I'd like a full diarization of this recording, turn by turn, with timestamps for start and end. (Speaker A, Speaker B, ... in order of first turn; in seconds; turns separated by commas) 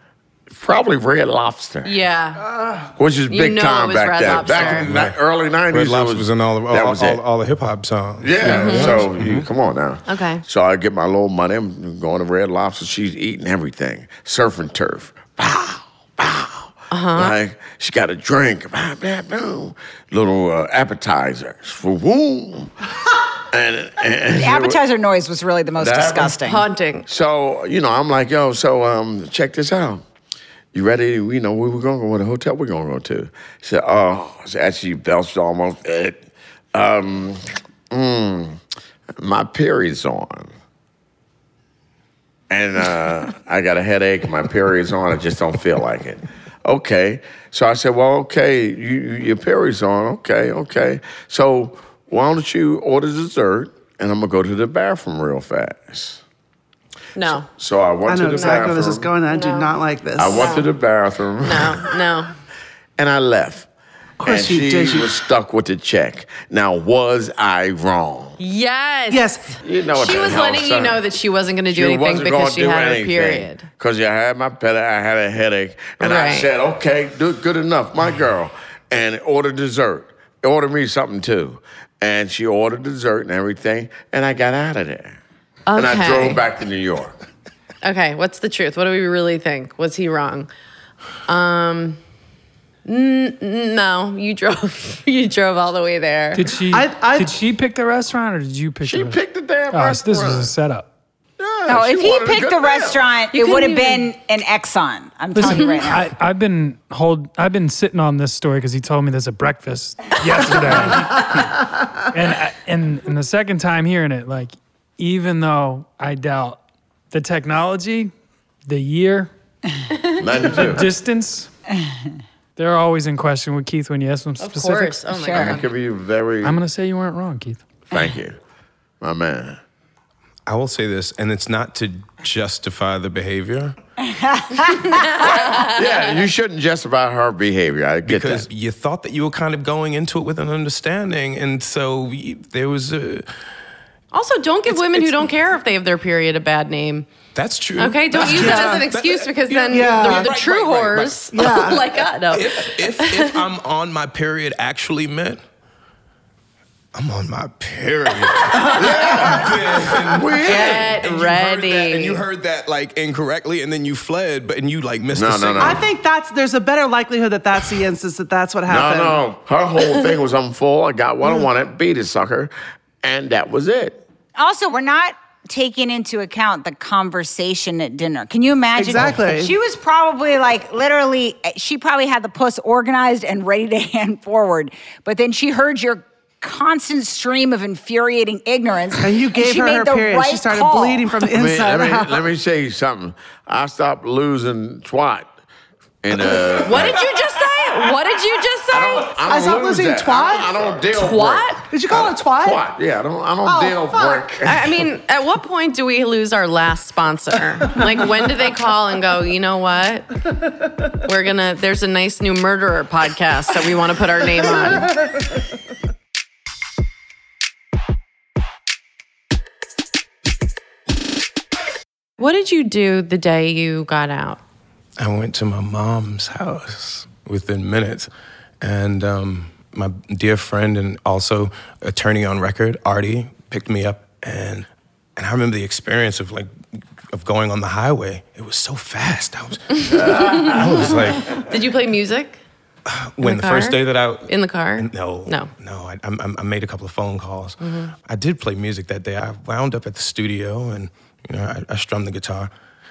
Speaker A: 0.5-1.9, Speaker B: 1.8-2.4, Speaker A: 2.8-7.2, Speaker B: 3.3-4.9, Speaker C: 4.2-5.2, Speaker C: 5.7-9.5, Speaker A: 8.2-22.7, Speaker B: 8.4-9.0, Speaker B: 10.1-10.4, Speaker B: 16.9-17.4, Speaker A: 23.5-24.8, Speaker D: 24.3-26.6, Speaker A: 25.8-26.4, Speaker B: 26.4-27.1, Speaker A: 27.1-30.0, Speaker A: 30.7-38.6, Speaker A: 39.2-40.5, Speaker A: 42.5-56.2, Speaker B: 57.1-57.5, Speaker A: 57.5-59.1, Speaker E: 58.0-60.7, Speaker B: 58.3-59.7, Speaker A: 60.2-61.8, Speaker B: 60.3-60.7, Speaker B: 61.4-62.3, Speaker A: 63.0-63.7, Speaker E: 64.2-65.1, Speaker A: 64.2-68.4, Speaker B: 68.4-73.7, Speaker E: 69.1-69.5, Speaker A: 69.6-71.0, Speaker A: 71.7-85.2, Speaker B: 76.0-76.5, Speaker B: 85.7-86.4, Speaker A: 85.8-87.2, Speaker B: 87.8-90.5, Speaker B: 91.3-92.0, Speaker B: 92.8-96.5, Speaker F: 96.3-99.2, Speaker E: 96.7-97.3, Speaker A: 98.8-100.5, Speaker F: 99.7-100.9, Speaker A: 101.4-103.0, Speaker D: 101.7-106.1, Speaker B: 103.3-104.1, Speaker F: 105.3-118.1, Speaker F: 118.7-119.3, Speaker A: 120.2-120.9, Speaker F: 120.4-121.5, Speaker F: 122.5-125.1, Speaker B: 124.4-125.6, Speaker D: 125.1-125.6, Speaker A: 125.3-126.6, Speaker F: 126.4-127.6, Speaker A: 127.9-128.4, Speaker A: 129.0-129.6, Speaker C: 130.4-133.8, Speaker D: 134.0-135.0, Speaker B: 134.8-135.8, Speaker A: 135.2-138.5, Speaker C: 138.0-143.2, Speaker B: 144.1-147.1, Speaker C: 144.7-145.1, Speaker C: 147.3-151.8, Speaker B: 147.8-153.4, Speaker E: 148.3-148.8, Speaker E: 149.7-150.3, Speaker E: 151.3-151.8, Speaker C: 152.3-155.4, Speaker C: 156.9-165.8, Speaker A: 158.7-160.9, Speaker B: 160.4-162.2, Speaker A: 165.1-165.8, Speaker E: 165.6-169.2, Speaker A: 168.7-174.0, Speaker D: 174.3-191.1, Speaker E: 178.8-179.6, Speaker E: 189.0-192.2, Speaker A: 191.3-195.3, Speaker A: 196.0-197.1, Speaker B: 196.6-199.1, Speaker A: 198.7-204.6, Speaker E: 199.2-200.7, Speaker B: 200.9-201.6, Speaker E: 201.7-202.6, Speaker E: 203.4-204.3, Speaker B: 204.4-210.2, Speaker B: 211.0-214.9, Speaker B: 222.2-224.4, Speaker C: 225.0-228.1, Speaker C: 228.6-236.5, Speaker C: 237.1-241.3, Speaker B: 239.8-242.4, Speaker C: 242.8-252.5, Speaker B: 243.2-245.5, Speaker B: 247.6-247.9